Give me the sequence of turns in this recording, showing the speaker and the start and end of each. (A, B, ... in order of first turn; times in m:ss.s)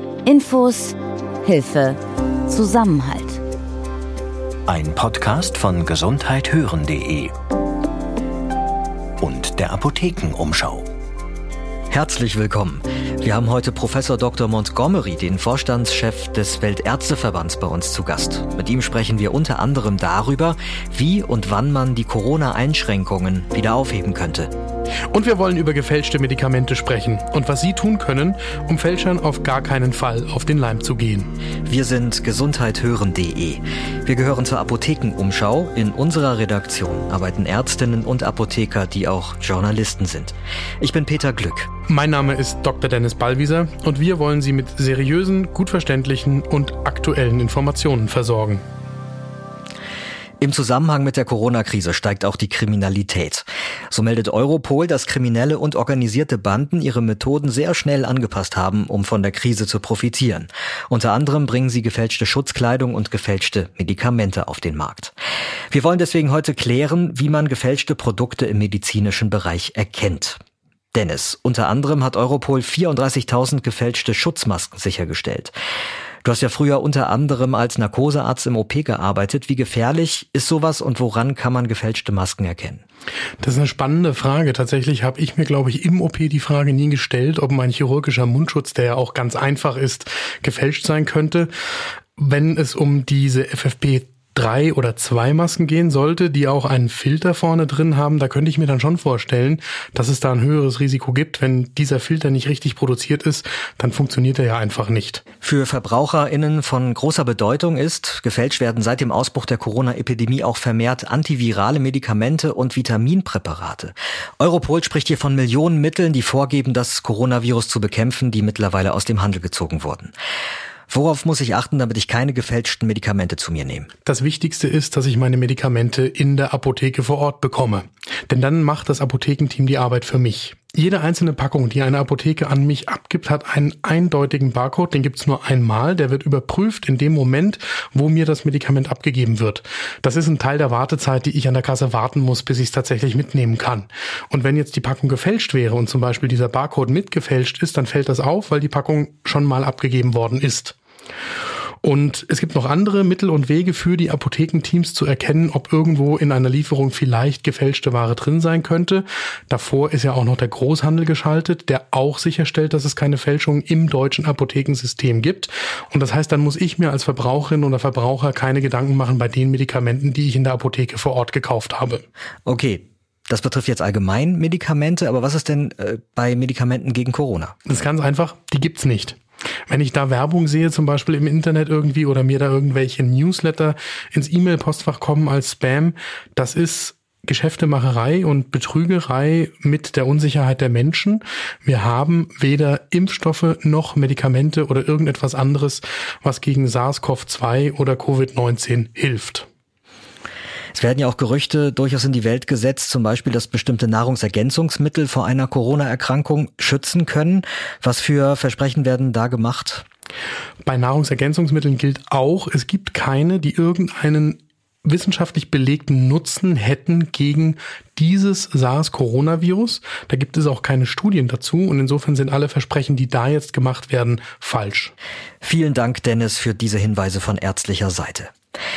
0:00.2-0:03.4 A
0:04.7-0:07.3 B
0:09.2-0:10.9 B
0:11.9-0:24.5 C
0:25.1-0:31.3 D
0:31.6-0:41.7 C
0:41.9-0:48.6 D
0:50.4-1:05.1 C
1:05.7-1:10.4 C
1:10.9-1:15.5 C
1:16.2-1:22.8 C
1:23.4-1:31.5 D
1:32.2-1:45.2 D
1:45.4-2:00.1 C
2:00.9-2:03.9 C
2:04.0-2:30.8 D
2:31.8-2:52.0 D
2:52.4-2:57.5 C
2:57.7-2:59.2 D
2:59.7-3:19.4 D
3:20.7-3:29.8 C
3:30.6-3:44.9 D
3:45.4-3:48.3 C